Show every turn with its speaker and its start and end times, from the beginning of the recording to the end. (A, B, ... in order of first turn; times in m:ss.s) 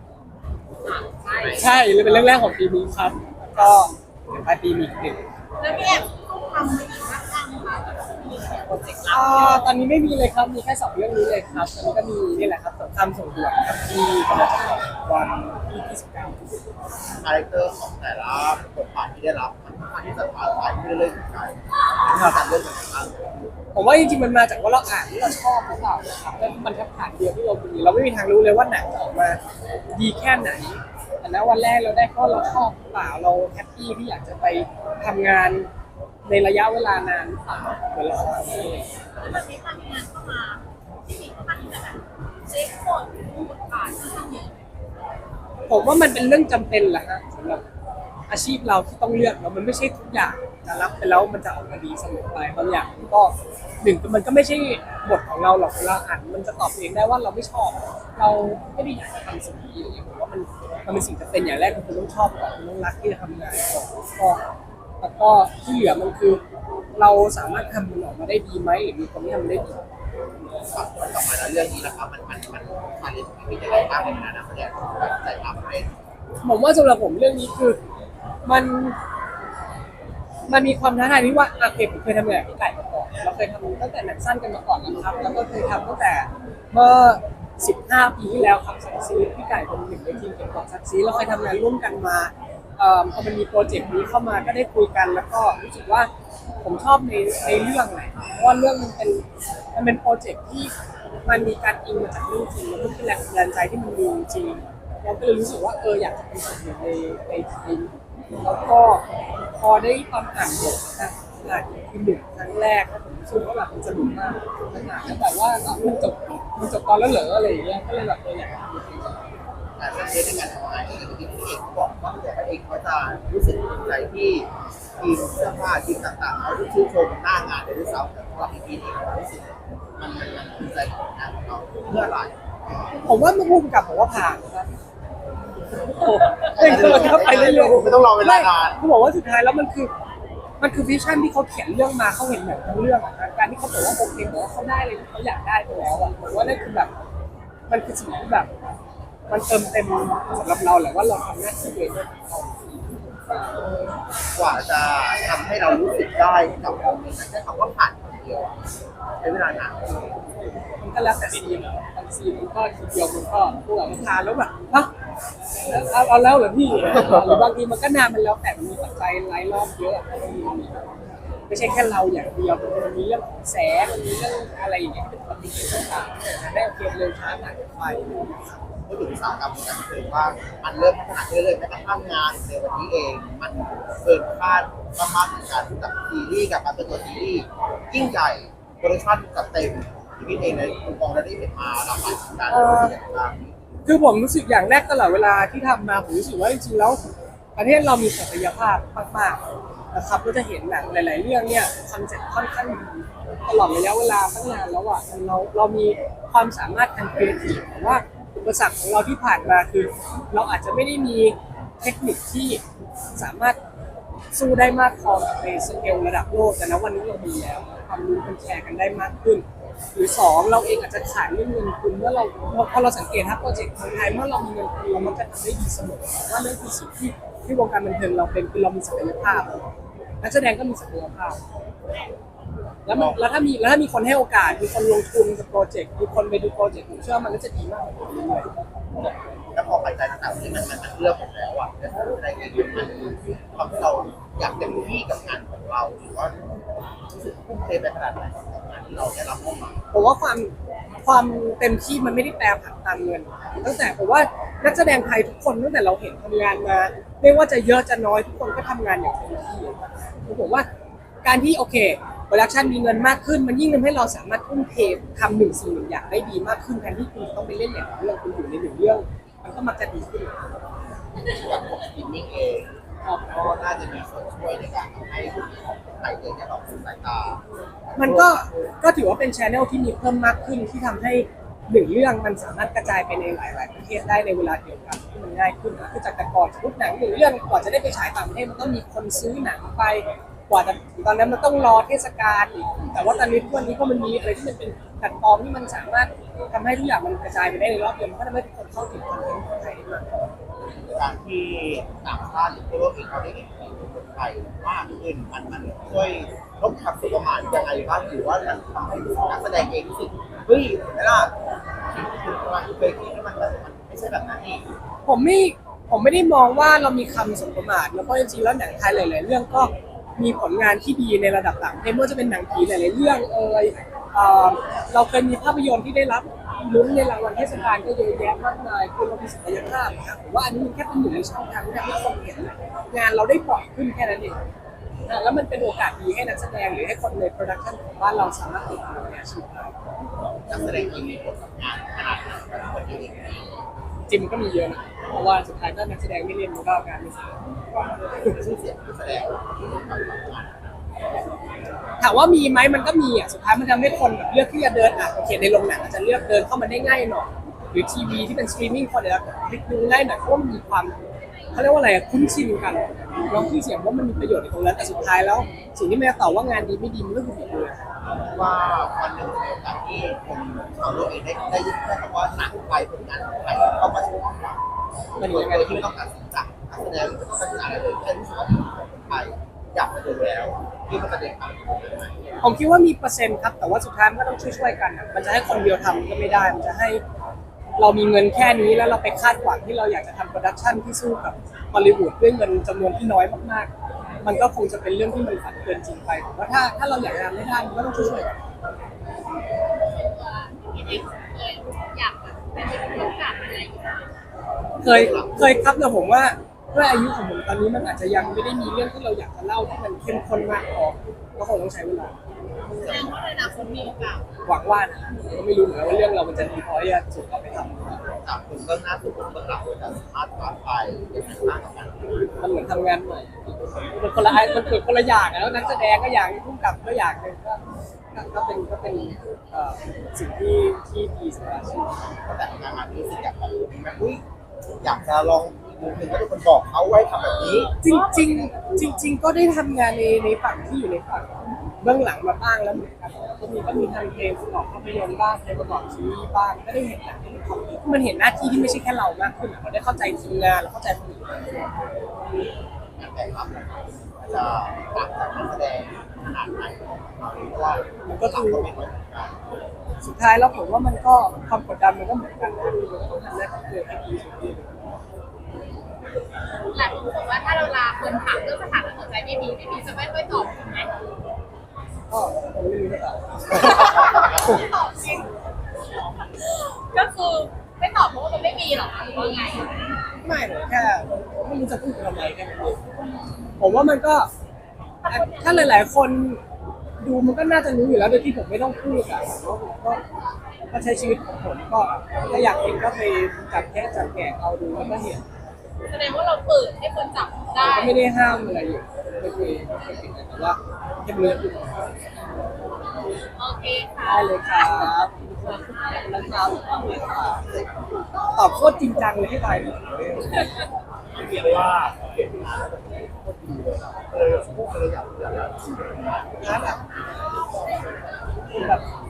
0:00.8-0:01.6 A
0:01.4-0:02.0 B
0:01.6-0:05.2 C
0:05.6-0:09.6 A
0:09.0-0:16.6 C
0:17.2-0:23.2 B
0:22.1-0:22.4 C
0:23.7-0:29.4 C
0:29.9-0:35.7 C
0:36.2-0:38.8 C
0:39.2-0:44.6 A
0:45.7-0:47.6 C
0:48.3-1:04.4 C
1:05.0-1:06.4 C
1:07.0-1:09.8 C
1:10.7-1:15.9 B
1:16.4-1:17.8 C
1:18.4-1:19.0 C
1:20.5-1:36.1 C
1:36.6-1:39.2 C
1:39.7-1:40.7 C
1:41.2-1:59.2 C
1:59.8-2:04.5 B
2:05.0-2:12.3 B
2:13.0-2:14.7 C
2:15.8-2:19.9 C
2:16.4-2:18.8 B
2:20.6-2:26.9 C
2:27.7-2:28.5 C
2:29.3-2:32.8 C
2:34.3-2:38.6 B
2:39.2-2:40.0 B
2:40.8-2:44.9 C
2:45.6-2:50.9 C
2:46.9-2:47.4 B
2:51.5-2:58.6 C
2:58.9-3:13.5 B
3:12.5-3:12.9 C
3:13.8-3:17.0 C
3:17.6-3:19.4 C
3:19.9-3:32.6 C
3:33.2-3:33.6 C
3:34.3-3:39.4 C
3:39.9-3:49.6 C
3:50.2-3:51.4 C
3:52.8-3:58.5 C
3:52.9-3:53.2 B
3:59.0-4:06.4 B
4:07.1-4:09.8 B
4:09.9-4:10.5 C
4:11.0-4:20.7 C
4:21.2-4:30.3 C
4:31.3-4:32.7 B
4:33.0-4:33.3 C
4:33.3-4:38.5 B
4:38.0-5:00.0 C
5:00.8-5:11.3 B
5:11.9-5:14.6 B
5:15.0-5:34.4 C
5:35.1-5:39.7 C
5:40.5-5:43.4 B
5:44.1-5:47.4 C
5:48.3-5:50.7 B
5:52.0-6:00.9 C
6:01.5-6:07.8 C
6:08.3-6:14.6 B
6:15.2-6:22.2 B
6:15.2-6:15.9 C
6:22.4-6:27.0 C
6:27.8-6:33.7 C
6:34.2-6:38.3 C
6:39.8-6:44.1 A
6:44.8-6:45.4 B
6:44.8-6:52.1 C
6:52.7-6:54.2 A
6:52.8-6:53.2 B
6:54.4-6:58.0 C
6:58.2-7:02.2 B
7:02.4-7:07.6 C
7:08.1-7:12.0 C
7:12.2-7:14.2 B
7:14.8-7:17.7 B
7:17.8-7:21.3 C
7:17.8-7:18.5 A
7:21.8-7:31.4 C
7:33.0-7:33.7 B
7:34.2-7:39.3 B
7:38.0-7:38.7 C
7:40.0-7:44.8 C
7:46.7-7:50.9 A
7:52.1-7:54.5 C
7:53.6-7:55.3 A
7:56.4-7:59.7 A
8:00.2-8:02.8 C
8:03.6-8:04.3 C
8:05.0-8:05.8 A
8:05.1-8:06.4 C
8:07.0-8:10.0 C
8:10.7-8:15.2 C
8:15.9-8:18.0 A
8:17.6-8:21.9 C
8:23.4-8:26.6 A
8:24.0-8:27.4 C
8:28.3-8:30.2 C
8:31.1-8:36.8 B
8:36.4-8:36.8 C
8:38.5-8:38.8 C